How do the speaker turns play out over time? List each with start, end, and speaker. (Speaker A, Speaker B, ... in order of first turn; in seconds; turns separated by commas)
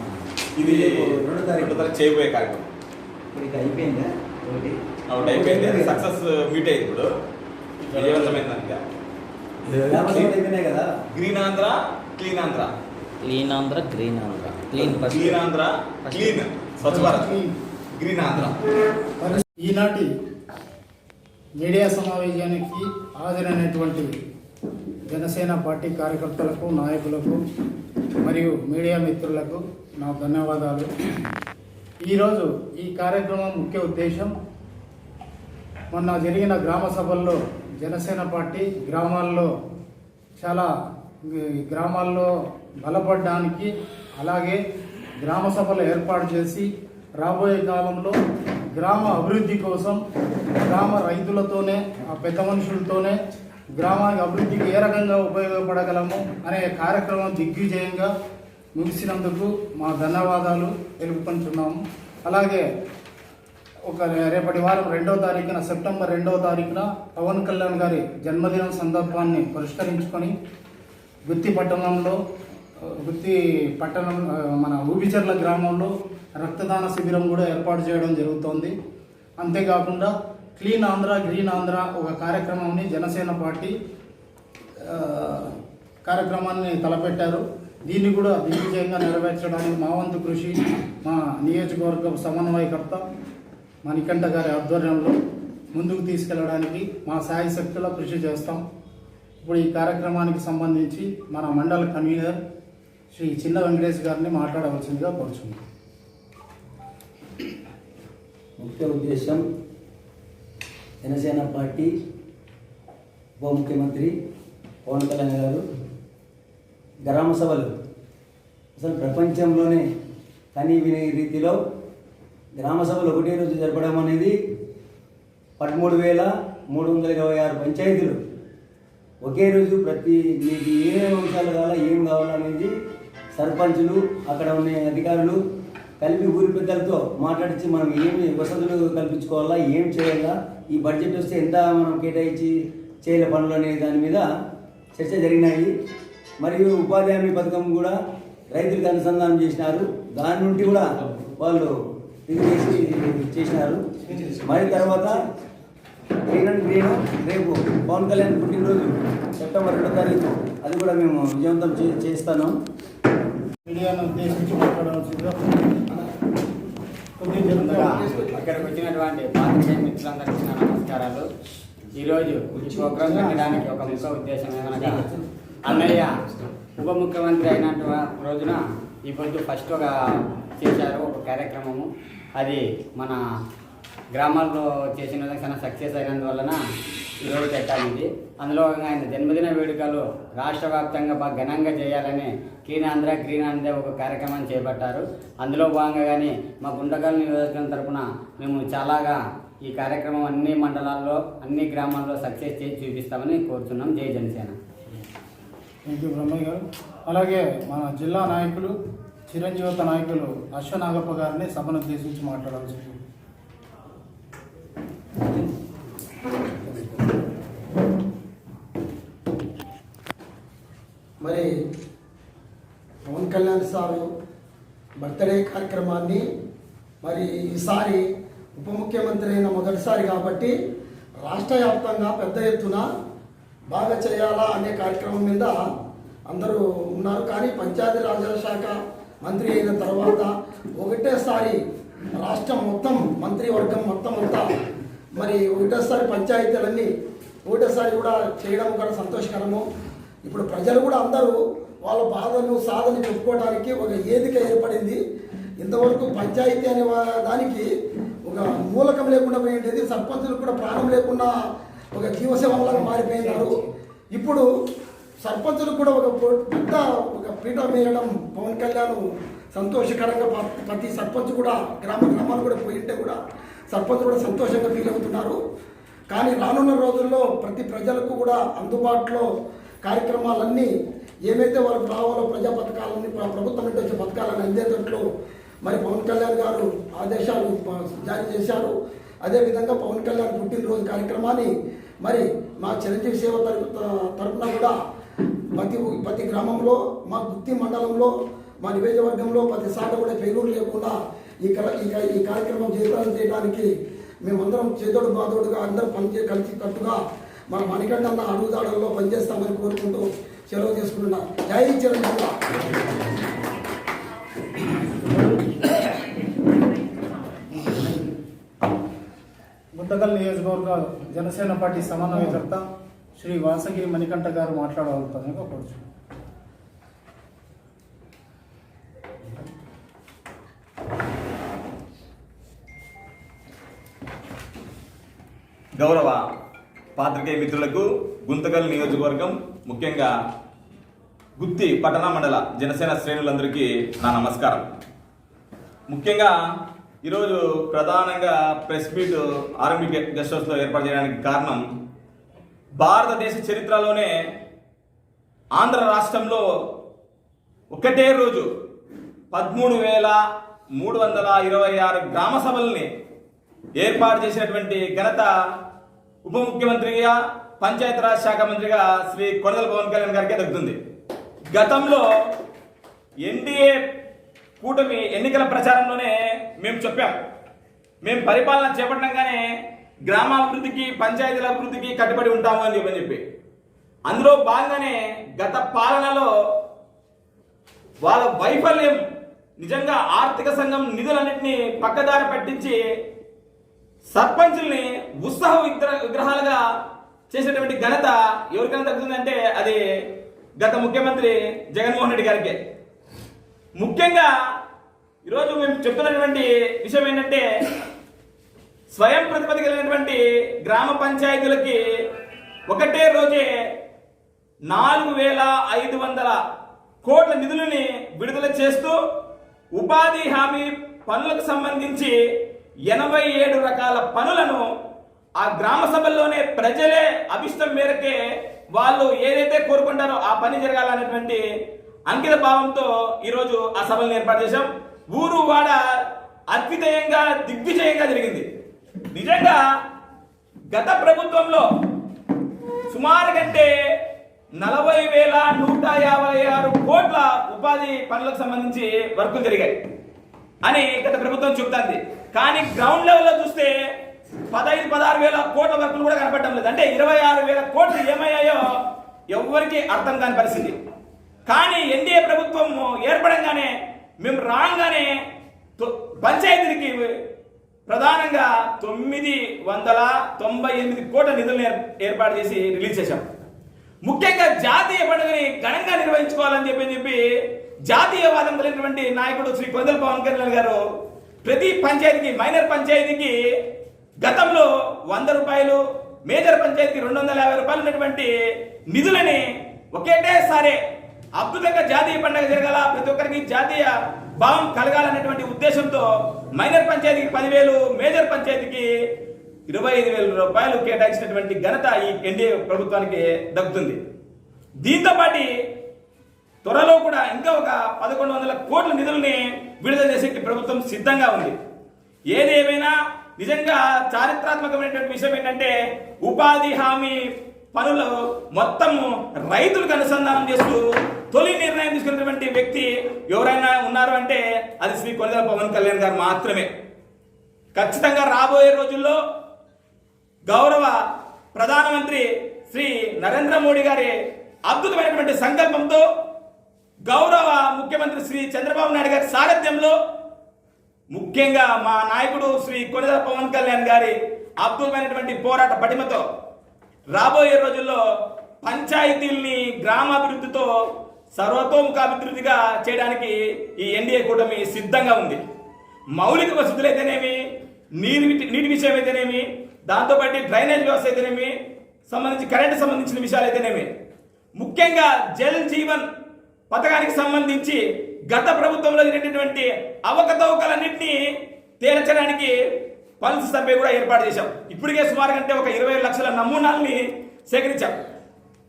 Speaker A: 0.6-0.9, Speaker B: 0.6-1.8, Speaker A: 1.5-2.6, Speaker B: 3.3-5.9, Speaker A: 5.1-7.1, Speaker A: 7.9-8.8, Speaker B: 9.9-10.9, Speaker A: 9.9-10.3, Speaker A: 11.1-12.7, Speaker C: 13.2-15.4, Speaker A: 15.0-17.4, Speaker C: 16.1-16.4, Speaker D: 16.8-17.5, Speaker A: 18.0-18.6, Speaker D: 19.2-20.1, Speaker D: 21.6-24.1, Speaker D: 25.1-27.4, Speaker D: 28.2-30.9, Speaker D: 32.0-34.3, Speaker D: 35.9-39.5, Speaker D: 40.4-40.7, Speaker D: 41.2-44.6, Speaker D: 45.2-48.2, Speaker D: 48.7-50.0, Speaker D: 50.6-53.2, Speaker D: 53.7-58.1, Speaker D: 58.7-62.7, Speaker D: 63.9-70.3, Speaker D: 71.2-72.2, Speaker D: 72.8-78.7, Speaker D: 79.4-83.7, Speaker D: 84.8-93.0, Speaker D: 93.8-95.1, Speaker D: 95.7-98.6, Speaker D: 99.4-102.4, Speaker D: 103.1-105.6, Speaker B: 108.6-109.4, Speaker B: 111.0-111.9, Speaker B: 113.4-114.1, Speaker B: 114.8-115.6, Speaker B: 117.0-117.7, Speaker B: 118.8-119.8, Speaker B: 120.5-121.5, Speaker B: 122.5-124.3, Speaker B: 125.6-128.2, Speaker B: 129.2-132.7, Speaker B: 133.3-135.4, Speaker B: 136.0-142.5, Speaker B: 143.0-144.2, Speaker B: 144.9-145.7, Speaker B: 146.4-147.9, Speaker B: 148.5-151.7, Speaker B: 152.3-153.8, Speaker B: 154.4-155.2, Speaker B: 156.3-162.5, Speaker D: 163.6-165.6, Speaker D: 167.2-168.1, Speaker E: 167.6-171.2, Speaker F: 167.9-168.4, Speaker E: 171.9-175.0, Speaker B: 172.6-174.0, Speaker B: 174.7-175.2, Speaker E: 175.6-176.1, Speaker E: 176.8-179.9, Speaker E: 180.6-183.2, Speaker E: 184.1-186.6, Speaker E: 187.2-204.5, Speaker D: 205.8-208.8, Speaker D: 209.3-213.0, Speaker F: 221.2-221.5, Speaker F: 223.1-224.1, Speaker F: 225.0-226.2, Speaker F: 227.0-228.0, Speaker F: 228.6-230.5, Speaker F: 231.2-232.8, Speaker F: 233.7-235.6, Speaker F: 236.3-241.6, Speaker F: 242.2-244.4, Speaker F: 245.2-246.9, Speaker F: 247.5-249.6, Speaker F: 250.2-255.0, Speaker F: 255.6-257.6, Speaker F: 258.2-261.3, Speaker F: 261.9-264.4, Speaker F: 265.2-269.0, Speaker F: 269.5-273.2, Speaker F: 273.7-275.4, Speaker F: 276.1-279.2, Speaker F: 279.8-280.7, Speaker F: 281.2-285.0, Speaker F: 285.6-291.5, Speaker F: 292.0-294.7, Speaker F: 295.6-303.7, Speaker F: 304.2-307.0, Speaker F: 307.5-312.6, Speaker D: 315.0-315.5, Speaker D: 319.7-322.6, Speaker D: 323.2-325.8, Speaker A: 335.8-336.2, Speaker A: 337.0-340.1, Speaker A: 341.4-344.6, Speaker A: 345.9-346.3, Speaker A: 347.0-351.6, Speaker A: 352.8-354.1, Speaker A: 355.6-356.4, Speaker A: 357.7-358.5, Speaker A: 359.3-360.2, Speaker A: 360.8-362.9, Speaker A: 363.8-365.3, Speaker A: 366.2-370.8, Speaker A: 371.5-372.1, Speaker A: 373.2-373.7, Speaker A: 374.6-377.1, Speaker A: 378.0-379.4, Speaker A: 380.1-383.2, Speaker A: 384.1-386.3, Speaker A: 388.0-389.0, Speaker A: 389.6-392.8, Speaker A: 394.1-396.6, Speaker A: 397.3-399.8, Speaker A: 400.6-402.6, Speaker A: 403.8-404.3, Speaker A: 405.2-407.4, Speaker A: 408.9-411.8, Speaker A: 412.7-413.4, Speaker A: 414.7-416.4, Speaker A: 417.0-418.9, Speaker A: 419.8-422.1, Speaker A: 422.9-424.6, Speaker A: 425.4-428.1, Speaker A: 428.7-431.4, Speaker A: 432.1-435.8, Speaker A: 436.5-438.4, Speaker A: 439.1-439.6, Speaker A: 440.7-441.6, Speaker A: 442.9-443.7, Speaker A: 444.6-449.8, Speaker A: 450.6-453.7, Speaker A: 454.5-458.6, Speaker A: 459.3-460.8, Speaker A: 461.5-465.1, Speaker A: 465.8-467.1, Speaker A: 467.9-473.2, Speaker A: 474.0-477.2, Speaker A: 477.9-480.8, Speaker A: 481.4-483.3, Speaker A: 484.2-488.3, Speaker A: 488.9-490.8, Speaker A: 491.4-498.9, Speaker A: 499.7-504.0, Speaker A: 504.8-505.5, Speaker A: 506.6-511.5, Speaker A: 512.3-515.7, Speaker A: 516.2-517.2, Speaker A: 517.7-526.7, Speaker A: 527.7-529.2, Speaker A: 530.5-531.0, Speaker A: 531.5-534.1, Speaker A: 534.7-536.0, Speaker A: 537.1-539.9, Speaker A: 541.1-546.2, Speaker A: 547.1-548.0, Speaker A: 548.6-550.7, Speaker A: 551.3-555.4, Speaker A: 556.1-557.4, Speaker A: 558.0-561.5, Speaker A: 562.1-563.9, Speaker A: 564.6-566.0, Speaker A: 566.7-567.8, Speaker A: 568.3-571.1, Speaker A: 571.8-572.5, Speaker A: 573.2-578.0